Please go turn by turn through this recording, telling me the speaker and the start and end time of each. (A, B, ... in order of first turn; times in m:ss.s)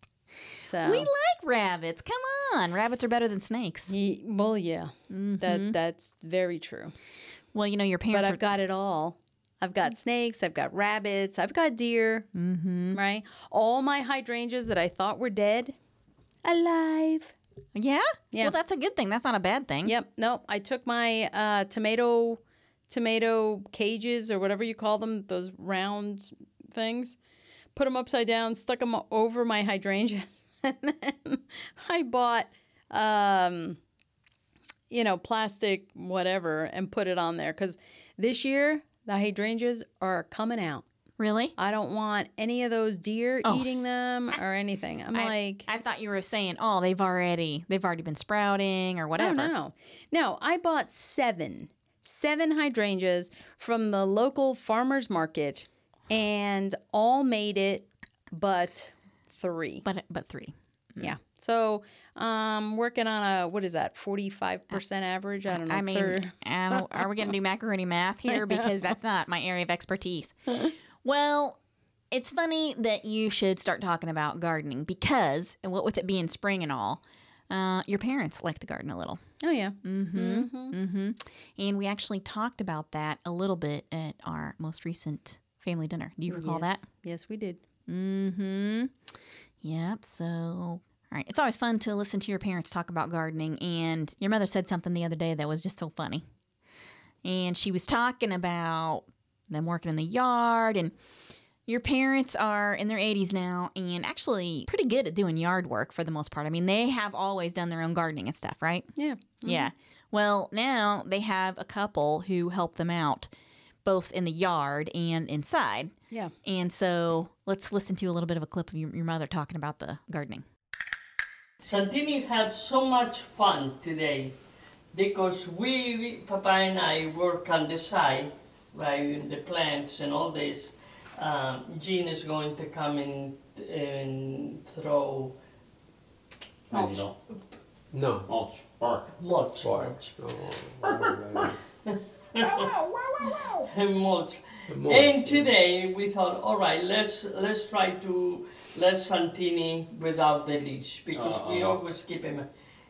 0:00.7-0:01.1 A
0:00.8-0:03.9 B
0:03.9-0:06.9 A
0:05.1-0:05.8 B
0:07.5-0:08.4 B
0:08.1-0:12.3 A
0:12.3-0:13.0 B
0:12.9-0:15.8 A
0:16.4-0:17.3 A
0:17.8-0:20.0 B
0:19.8-0:27.2 A
0:27.8-0:33.8 A
0:34.9-0:40.8 A
0:41.2-0:41.6 B
0:41.6-0:45.7 A
0:45.1-0:49.5 B
0:49.2-0:59.8 A
0:59.8-1:01.2 B
1:01.0-1:06.3 A
1:05.5-1:10.4 B
1:11.0-1:11.6 B
1:12.1-1:19.2 B
1:19.4-1:20.8 A
1:19.8-1:26.8 B
1:26.3-1:27.6 A
1:27.9-1:28.9 B
1:29.6-1:36.2 B
1:37.2-1:40.9 B
1:41.7-1:48.9 B
1:49.0-1:49.7 A
1:49.4-1:53.3 B
1:53.8-1:55.9 B
1:56.4-2:00.4 B
2:01.6-2:04.3 C
2:04.9-2:15.4 C
2:16.7-2:17.2 D
2:17.9-2:18.3 E
2:18.3-2:19.1 D
2:19.2-2:20.1 C
2:19.6-2:21.6 E
2:21.9-2:22.7 C
2:22.5-2:23.6 D
2:23.4-2:32.5 C
2:24.7-2:25.5 E
2:31.1-2:31.8 D